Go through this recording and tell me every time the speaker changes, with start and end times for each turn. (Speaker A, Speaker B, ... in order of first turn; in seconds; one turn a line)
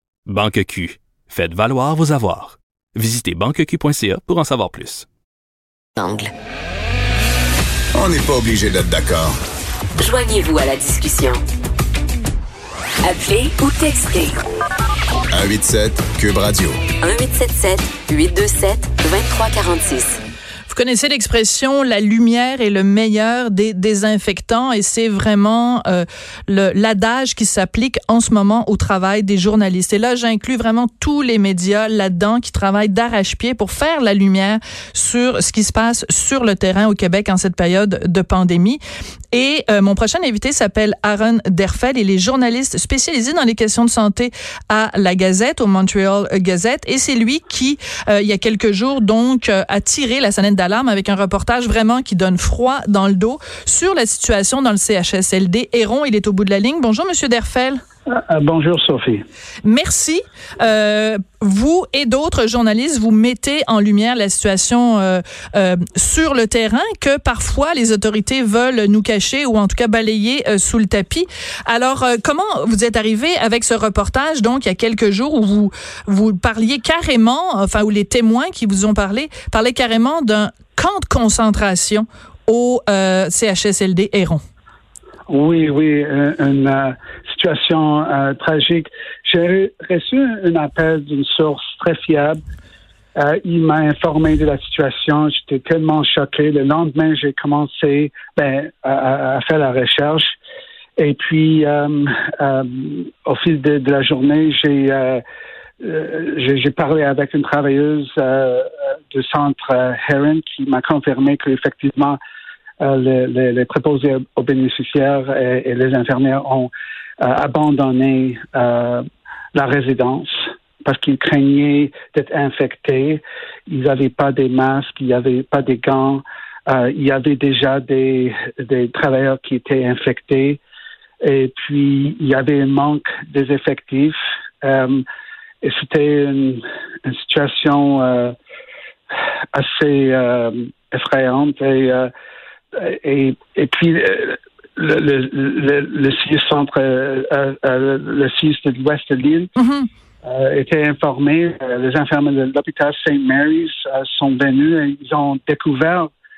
Speaker A: 0.3-5.1
Speaker B: 6.0-6.3
Speaker C: 7.9-9.3
Speaker B: 10.0-11.4
Speaker B: 13.0-14.4
Speaker C: 15.3-16.8
Speaker B: 17.0-20.2
Speaker D: 20.7-38.8
Speaker D: 39.3-57.8
Speaker E: 58.1-59.2
Speaker D: 59.6-84.4
Speaker E: 85.3-92.4
Speaker E: 93.2-100.4
Speaker E: 101.0-105.2
Speaker E: 105.8-112.2
Speaker E: 112.8-130.6
Speaker E: 131.2-135.1
Speaker E: 135.6-138.3
Speaker E: 139.5-142.1
Speaker E: 142.7-149.5
Speaker D: 149.6-149.9
Speaker E: 150.2-156.1